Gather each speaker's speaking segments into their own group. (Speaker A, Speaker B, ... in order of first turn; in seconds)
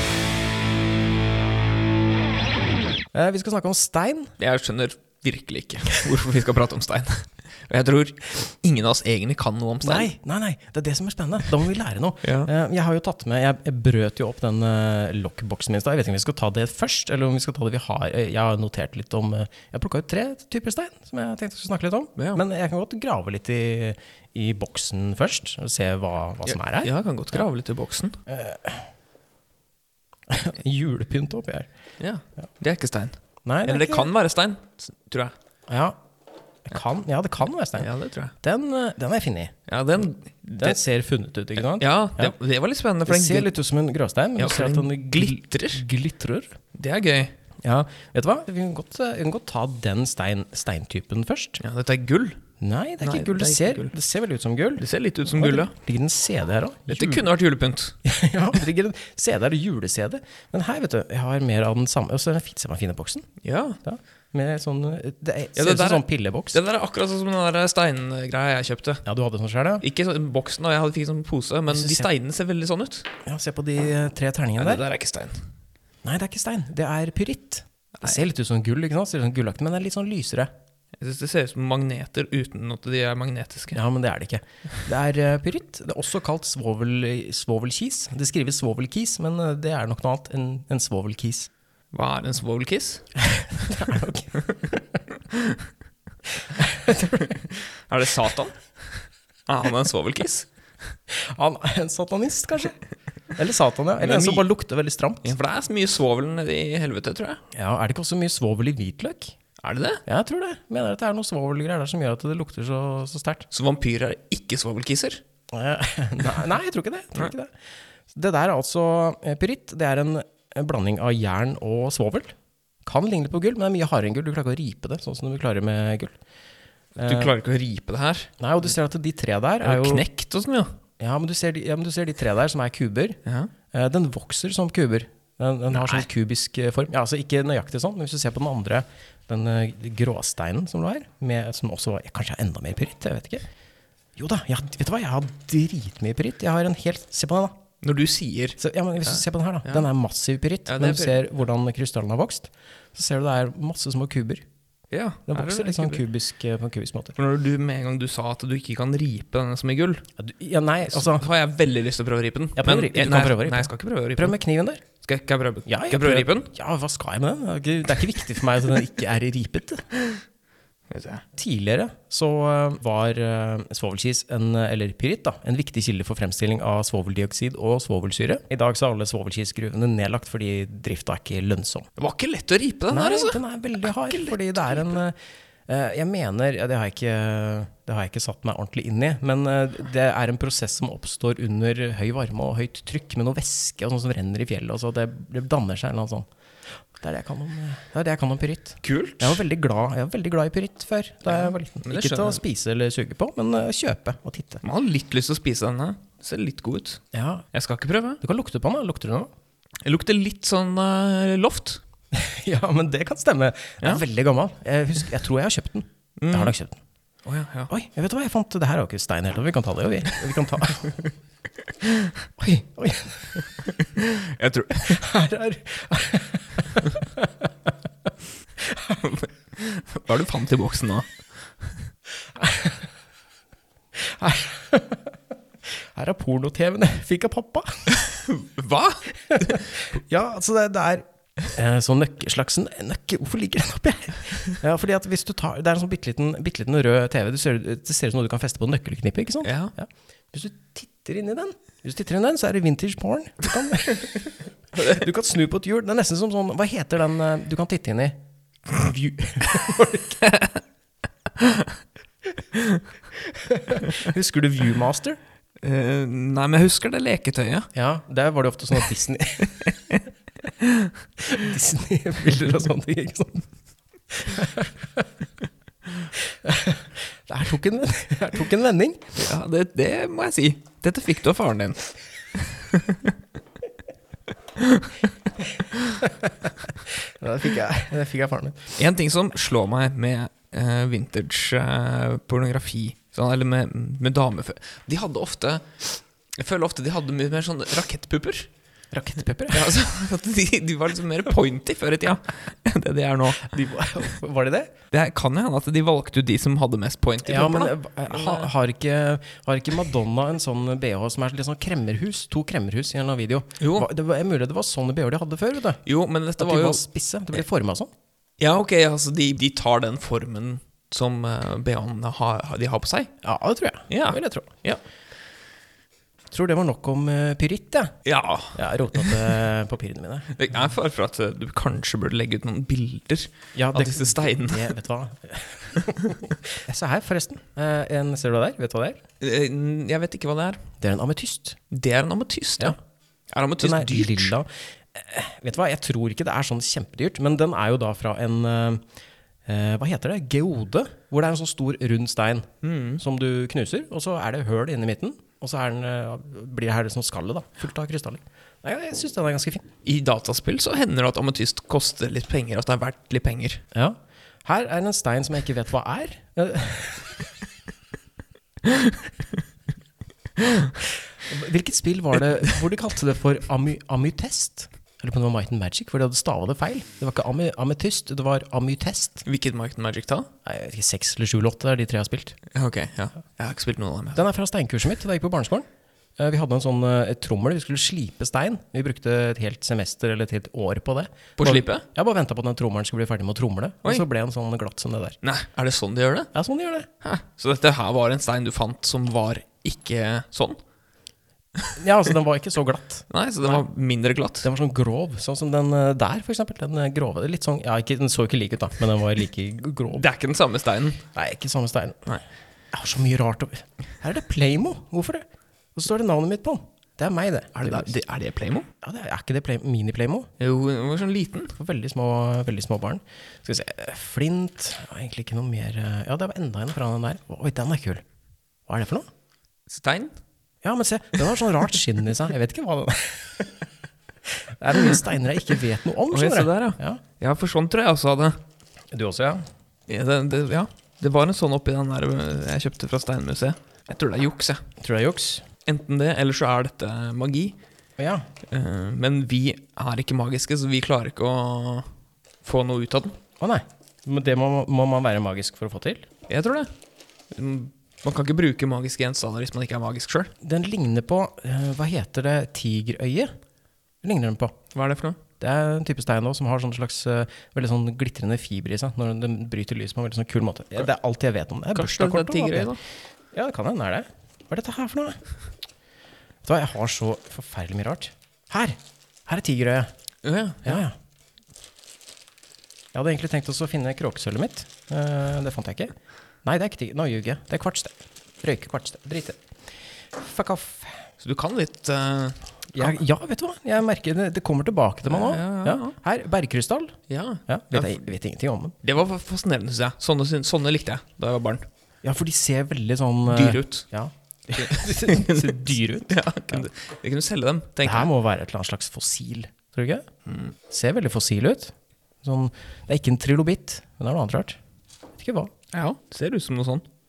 Speaker A: 3.1-4.3, 9.8-26.9, 28.3-28.9, 30.3-31.7, 33.5-34.1, 35.7-36.0, 36.6-37.9, 38.4-39.5, 40.6-42.4, 43.1-46.6, 47.6-51.6, 52.6-57.3, 58.0-63.3, 63.8-66.6, 69.0-69.8, 71.7-72.1, 73.2-74.8, 76.0-80.5, 83.7-91.5, 93.2-94.8, 96.4-97.4, 101.1-102.8, 103.3-105.3, 107.5-109.4, 110.1-113.5, 115.5-117.5, 118.1-126.2, 127.0-127.3, 128.4-130.1, 131.0-133.2, 133.7-143.5, 144.2-147.6, 148.6-154.4, 155.3-157.2, 160.2-161.2, 162.6-164.8, 165.7-169.9, 171.3-181.9, 182.9-196.3, 196.9-204.6, 207.1-207.5, 208.2-209.3, 212.1-216.8, 217.7-221.0, 222.4-223.5, 224.8-227.7, 228.6-229.1, 232.3-232.8, 233.9-238.0, 239.3-260.2, 263.2-265.2, 267.7-269.7, 271.2-273.5, 274.1-275.1, 276.1-279.2, 286.0-288.8, 298.9-299.8, 303.4-304.7, 307.2-315.8, 316.4-317.9, 323.2-324.5, 326.3-328.0, 328.5-330.3, 333.6-339.0, 340.8-341.6, 343.6-348.8, 349.5-359.6, 363.7-367.3, 371.2-379.2, 380.4-382.4, 384.1-385.7, 386.2-395.2, 396.3-396.9, 401.8-403.6, 404.4-410.1, 411.1-412.2, 412.7-417.9, 418.8-420.3, 421.6-428.0, 428.7-429.1, 430.6-433.6, 434.3-437.0, 438.9-439.5, 444.8-445.4, 448.0-448.3, 453.4-456.1, 460.4-463.3, 464.0-464.6, 465.4-472.7, 473.3-475.2, 476.4-479.9, 480.6-481.0, 482.9-489.4, 490.1-491.1, 492.7-498.8, 502.0-506.7, 507.8-510.1, 510.7-514.6, 515.2-515.5
Speaker B: 4.4-10.1, 12.2-12.5, 26.5-28.2, 32.0-35.3, 37.8-38.3, 39.7-40.8, 41.6-43.5, 44.4-45.9, 46.7-47.3, 51.6-52.4, 53.0-53.9, 54.8-55.7, 56.9-58.0, 63.4-63.8, 65.6-69.0, 69.8-73.1, 74.6-75.4, 81.0-83.8, 91.9-93.1, 95.3-95.6, 97.5-98.6, 99.5-100.5, 104.0-104.5, 105.2-107.4, 109.6-110.0, 113.5-115.2, 127.0-128.3, 129.6-130.8, 133.2-133.5, 135.8-136.0, 147.8-149.9, 150.7-151.2, 154.9-156.0, 157.2-160.1, 160.9-164.4, 165.0-166.5, 170.9-171.2, 182.0-185.0, 198.8-199.4, 201.3-202.4, 204.6-207.0, 207.5-208.2, 209.8-211.8, 216.2-216.5, 217.2-217.7, 221.8-222.1, 223.6-225.0, 229.0-231.1, 238.0-239.8, 249.4-249.7, 254.8-255.0, 260.2-260.6, 261.4-261.7, 262.5-262.8, 265.6-267.7, 269.6-270.0, 270.6-270.9, 279.2-283.1, 284.6-285.1, 285.7-286.0, 288.8-295.8, 296.4-298.5, 299.5-303.5, 304.9-308.5, 313.6-313.9, 315.9-316.8, 318.4-323.1, 323.9-324.8, 328.1-329.2, 330.3-334.7, 335.8-336.2, 339.2-340.6, 341.7-342.8, 343.3-344.4, 352.6-353.0, 359.8-363.6, 368.7-368.9, 370.4-370.7, 379.2-380.3, 382.5-384.2, 391.4-391.8, 395.2-396.3, 397.0-400.6, 403.1-404.5, 409.9-411.0, 417.6-418.7, 420.4-421.6, 429.7-430.1, 436.1-438.4, 439.9-444.6, 445.6-447.6, 448.5-451.9, 452.4-453.2, 456.3-456.7, 457.3-460.3, 464.7-465.2, 471.7-472.8, 480.2-480.8, 491.2-493.0, 495.1-496.0, 497.1-498.1, 498.8-501.7, 503.3-503.9, 504.6-508.1, 515.7-516.9